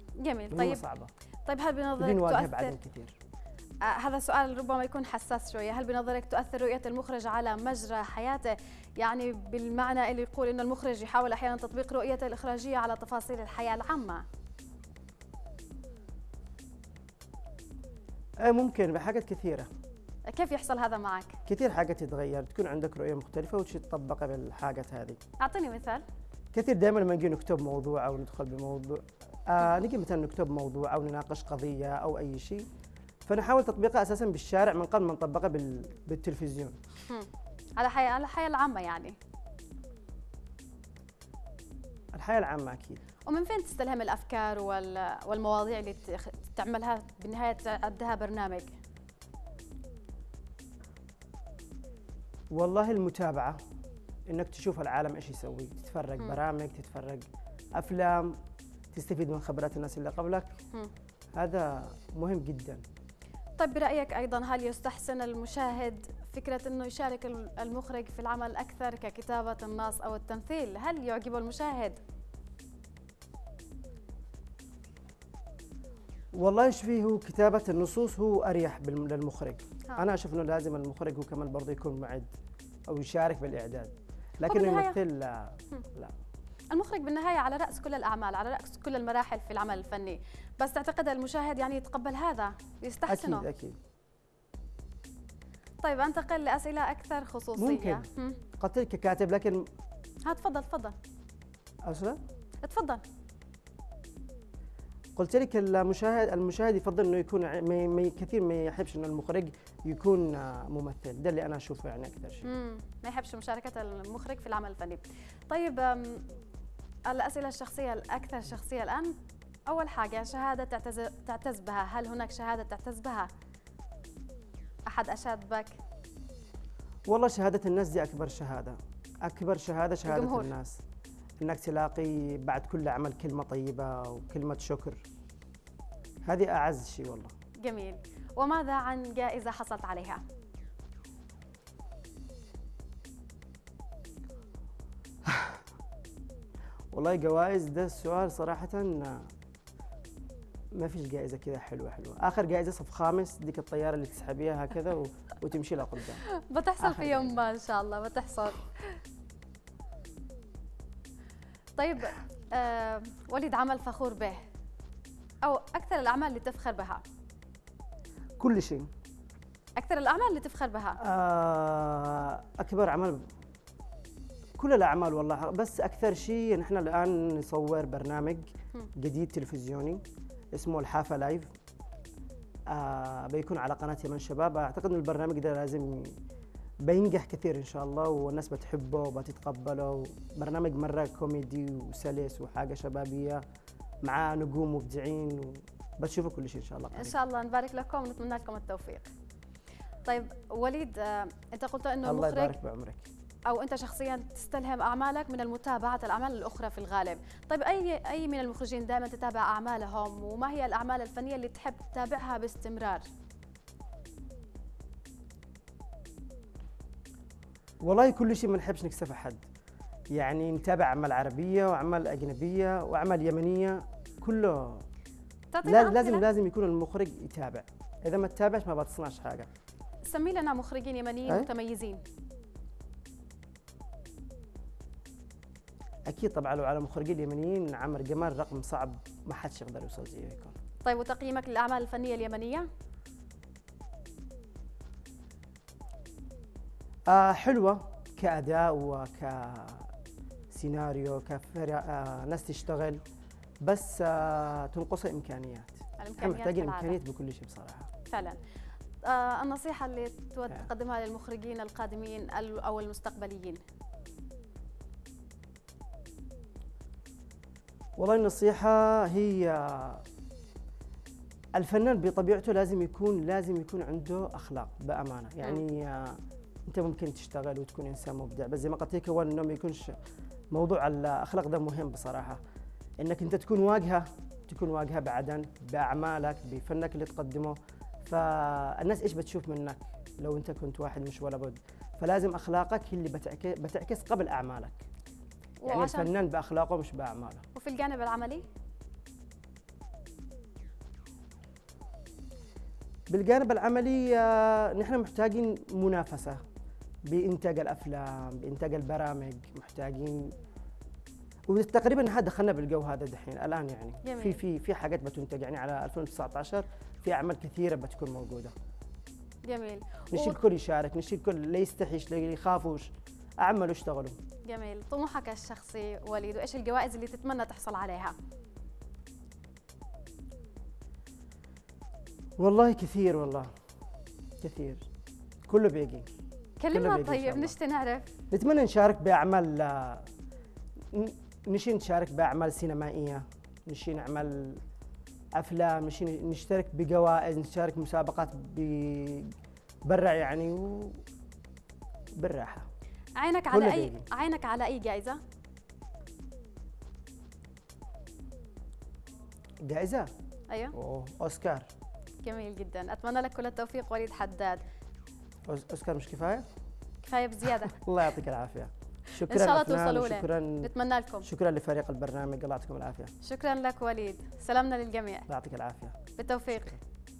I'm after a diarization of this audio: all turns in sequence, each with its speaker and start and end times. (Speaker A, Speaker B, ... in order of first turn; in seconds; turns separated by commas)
Speaker A: 0.2-0.8, Speaker B: 0.5-1.1, Speaker A: 1.4-2.7, Speaker B: 2.0-3.2, Speaker A: 3.8-14.2, Speaker B: 18.4-19.7, Speaker A: 20.3-21.4, Speaker B: 21.4-25.2, Speaker A: 25.4-26.0, Speaker B: 26.5-32.6, Speaker B: 33.2-36.8, Speaker A: 37.8-39.1, Speaker B: 42.1-43.0, Speaker A: 43.2-48.7, Speaker B: 52.5-53.6, Speaker B: 54.3-58.4, Speaker B: 58.9-60.5, Speaker B: 61.3-62.8, Speaker A: 63.6-72.0, Speaker B: 76.3-82.3, Speaker B: 82.9-86.1, Speaker A: 84.5-85.0, Speaker A: 86.7-93.5, Speaker B: 93.1-93.8, Speaker A: 95.8-98.4, Speaker B: 97.5-98.1, Speaker B: 98.6-99.7, Speaker A: 100.2-100.9, Speaker B: 101.8-102.2, Speaker A: 102.6-103.0, Speaker B: 105.2-112.5, Speaker A: 112.4-116.2, Speaker A: 117.1-119.1, Speaker A: 119.7-123.3, Speaker A: 124.9-125.8, Speaker B: 127.1-130.8, Speaker A: 130.1-130.5, Speaker B: 131.4-135.0, Speaker B: 136.2-137.3, Speaker A: 137.6-140.2, Speaker B: 145.2-145.6, Speaker B: 146.9-149.3, Speaker B: 150.7-156.2, Speaker A: 156.2-159.0, Speaker B: 156.8-157.4, Speaker A: 161.8-164.4, Speaker A: 165.4-167.0, Speaker B: 168.4-168.9, Speaker A: 169.8-171.0, Speaker B: 171.0-173.3, Speaker B: 174.6-178.4, Speaker B: 178.9-180.0, Speaker B: 180.5-181.5, Speaker B: 182.7-186.2, Speaker B: 186.8-193.4, Speaker B: 194.0-197.2, Speaker A: 196.9-199.1, Speaker A: 200.0-202.6, Speaker B: 202.0-203.1, Speaker A: 203.5-213.1, Speaker B: 217.8-219.4, Speaker B: 220.1-224.8, Speaker A: 225.5-226.2, Speaker B: 225.6-229.5, Speaker A: 230.0-232.0, Speaker B: 236.1-240.5, Speaker A: 240.8-242.7, Speaker B: 247.1-249.9, Speaker B: 250.5-253.0, Speaker B: 253.6-257.9, Speaker A: 256.0-257.0, Speaker A: 258.1-258.4, Speaker A: 259.0-263.6, Speaker B: 268.0-270.0, Speaker B: 271.6-279.9, Speaker B: 280.5-282.4, Speaker B: 283.0-294.8, Speaker A: 295.6-296.1, Speaker B: 295.7-297.4, Speaker A: 297.5-298.4, Speaker B: 303.1-306.4, Speaker B: 307.1-310.3, Speaker B: 311.5-318.5, Speaker A: 314.0-314.4, Speaker A: 319.4-320.4, Speaker B: 320.1-324.2, Speaker A: 324.4-328.1, Speaker B: 332.4-333.5, Speaker B: 334.4-334.9, Speaker B: 335.5-336.1, Speaker A: 336.6-338.1, Speaker B: 336.7-337.5, Speaker B: 338.3-340.1, Speaker B: 340.9-344.6, Speaker B: 345.4-349.3, Speaker B: 349.9-351.0, Speaker B: 352.2-352.7, Speaker A: 353.2-355.2, Speaker B: 353.5-354.1, Speaker B: 359.6-360.1, Speaker A: 360.5-360.7, Speaker B: 360.7-361.7, Speaker A: 362.2-364.6, Speaker B: 365.4-366.4, Speaker A: 367.0-367.8, Speaker B: 367.6-370.7, Speaker A: 369.2-371.3, Speaker B: 371.2-373.1, Speaker A: 373.2-375.3, Speaker B: 375.3-376.0, Speaker A: 376.2-376.8